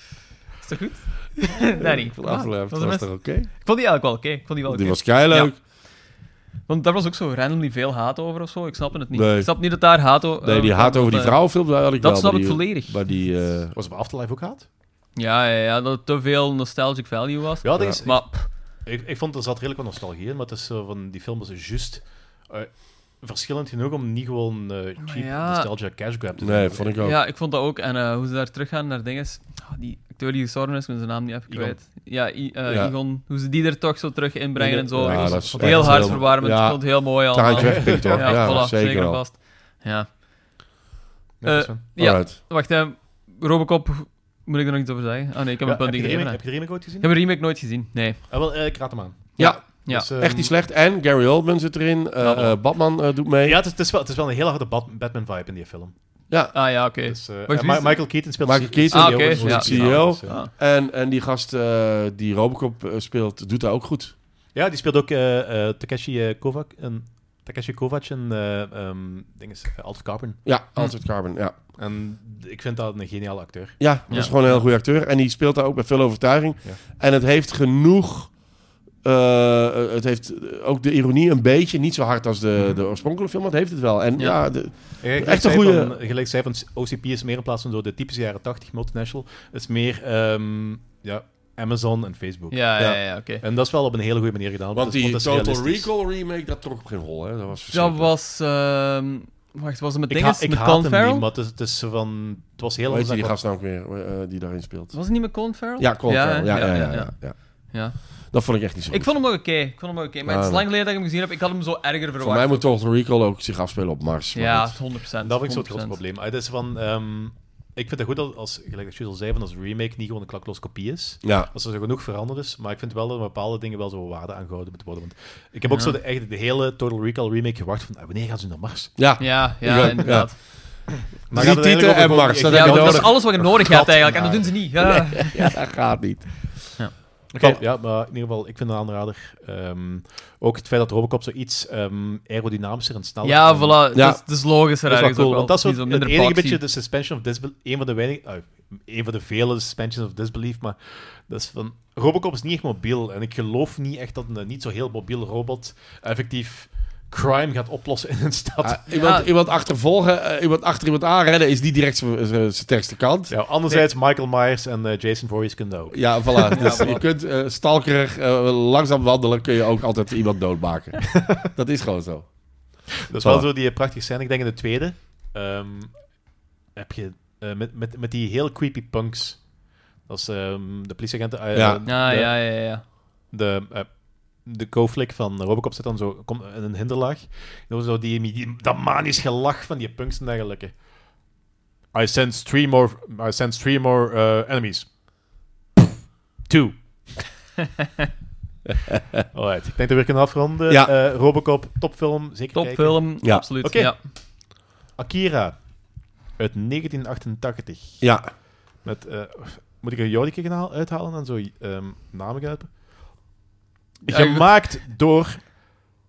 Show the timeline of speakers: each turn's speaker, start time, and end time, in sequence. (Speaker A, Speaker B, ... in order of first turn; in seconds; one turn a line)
Speaker A: 0.6-5.7
Speaker B: 1.8-3.5
Speaker B: 4.7-5.6
Speaker A: 6.7-13.0
Speaker B: 9.1-9.8
Speaker B: 10.4-13.7
Speaker C: 13.7-14.7
Speaker A: 15.2-18.3
Speaker C: 17.6-26.9
Speaker A: 25.0-25.7
Speaker B: 26.4-27.2
Speaker A: 27.0-40.2
Speaker C: 31.5-31.8
Speaker B: 32.6-32.9
Speaker B: 34.6-39.2
Speaker C: 35.0-36.3
Speaker C: 37.5-38.7
Speaker C: 41.4-41.8
Speaker A: 41.4-48.3
Speaker B: 42.0-42.4
Speaker C: 45.6-47.1
Speaker C: 48.3-50.5
Speaker A: 49.4-50.1
Speaker B: 49.4-53.6
Speaker A: 52.2-52.6
Speaker C: 53.4-56.0
Speaker B: 56.3-56.5
Speaker A: 56.5-58.1
Speaker C: 57.0-60.4
Speaker B: 58.4-64.1
Speaker A: 58.9-60.5
Speaker C: 64.5-70.4
Speaker B: 70.4-71.5
Speaker C: 71.8-74.6
Speaker B: 73.8-78.4
Speaker A: 74.1-74.3
Speaker B: 79.0-86.0
Speaker C: 85.0-92.6
Speaker A: 92.5-93.4
Speaker C: 93.4-95.9
Speaker B: 94.7-98.1
Speaker A: 97.7-101.2
Speaker C: 100.1-103.4
Speaker B: 102.9-105.0
Speaker A: 104.9-112.6
Speaker B: 105.8-107.4
Speaker B: 108.0-109.2
Speaker B: 110.2-110.6
Speaker B: 112.2-114.8
Speaker A: 114.3-116.0
Speaker C: 115.2-128.9
Speaker B: 121.2-121.5
Speaker B: 129.0-130.8
Speaker A: 129.2-130.4
Speaker C: 131.2-133.2
Speaker B: 131.3-136.8
Speaker A: 132.5-135.5
Speaker C: 137.3-143.8
Speaker A: 143.2-146.6
Speaker B: 143.9-144.2
Speaker C: 144.9-158.8
Speaker B: 158.6-163.3
Speaker A: 158.9-159.3
Speaker C: 163.3-167.0
Speaker B: 165.9-173.5
Speaker A: 166.5-167.0
Speaker C: 171.2-171.4
Speaker C: 173.1-176.2
Speaker C: 176.7-179.5
Speaker C: 180.0-190.7
Speaker B: 181.5-181.8
Speaker A: 181.8-182.8
Speaker C: 191.9-195.0
Speaker C: 196.5-196.8
Speaker C: 199.3-205.8
Speaker B: 200.7-200.9
Speaker A: 202.5-204.0
Speaker C: 206.3-208.2
Speaker B: 208.0-208.3
Speaker C: 208.8-212.7
Speaker C: 214.1-215.4
Speaker A: 214.1-214.5